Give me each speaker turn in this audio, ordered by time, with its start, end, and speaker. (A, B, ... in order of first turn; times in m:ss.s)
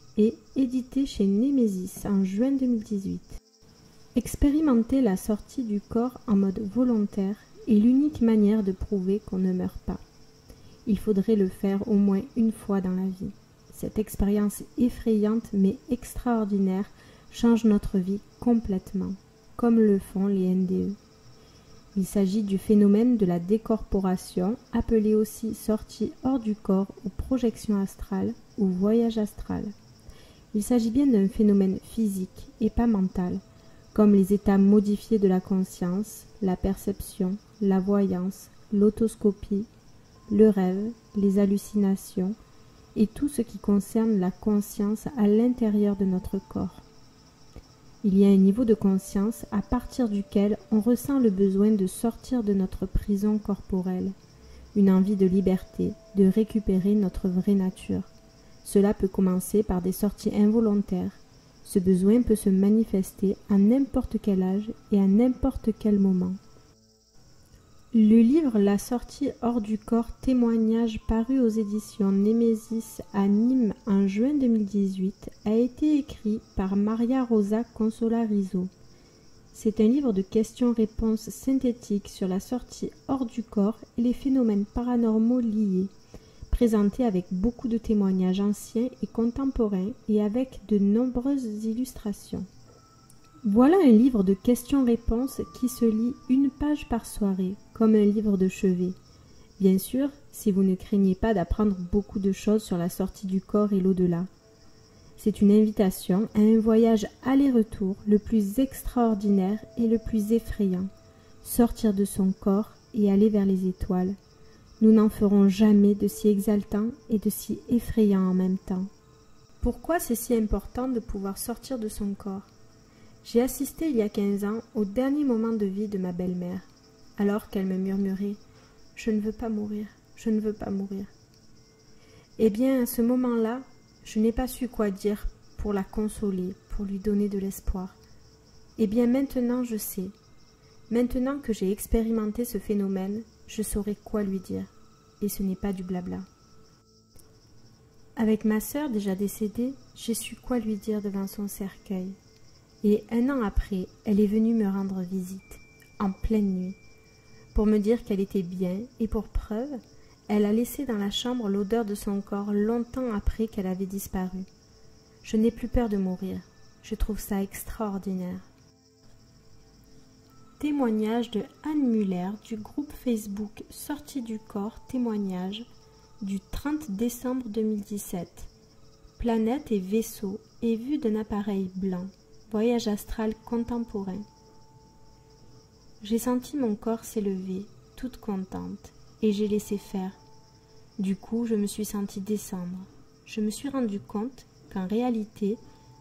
0:00.2-0:03.4 A
0:04.1-0:10.0 A
0:10.8-0:21.0 A
0:21.9-0:29.7 A
0:30.5-0:33.4 A
0:33.9-0:39.7 A
0:40.3-0:42.4 A
0:42.9-0:46.8 A
0:48.0-0:54.2 A
0:54.7-0:58.1 A
0:58.6-1:06.4 A
1:07.9-1:18.7 A
1:19.5-1:25.9 A
1:26.5-1:32.5 A
1:33.4-1:39.0 A
1:39.6-1:44.3 A
1:45.2-1:50.9 A
1:51.4-1:54.2 A
1:54.8-1:58.9 A
1:59.6-2:02.5 A
2:03.2-2:08.4 A
2:08.9-2:11.1 A
2:12.4-2:18.0 A
2:18.8-2:20.1 A
2:20.9-2:26.2 A
2:28.2-2:32.2 A
2:32.8-2:36.8 A
2:37.5-2:44.5 A
2:45.2-2:48.5 A
2:50.6-2:55.6 A
2:56.2-2:58.5 A
2:59.2-3:04.2 A
3:06.0-3:10.2 A
3:11.0-3:15.6 A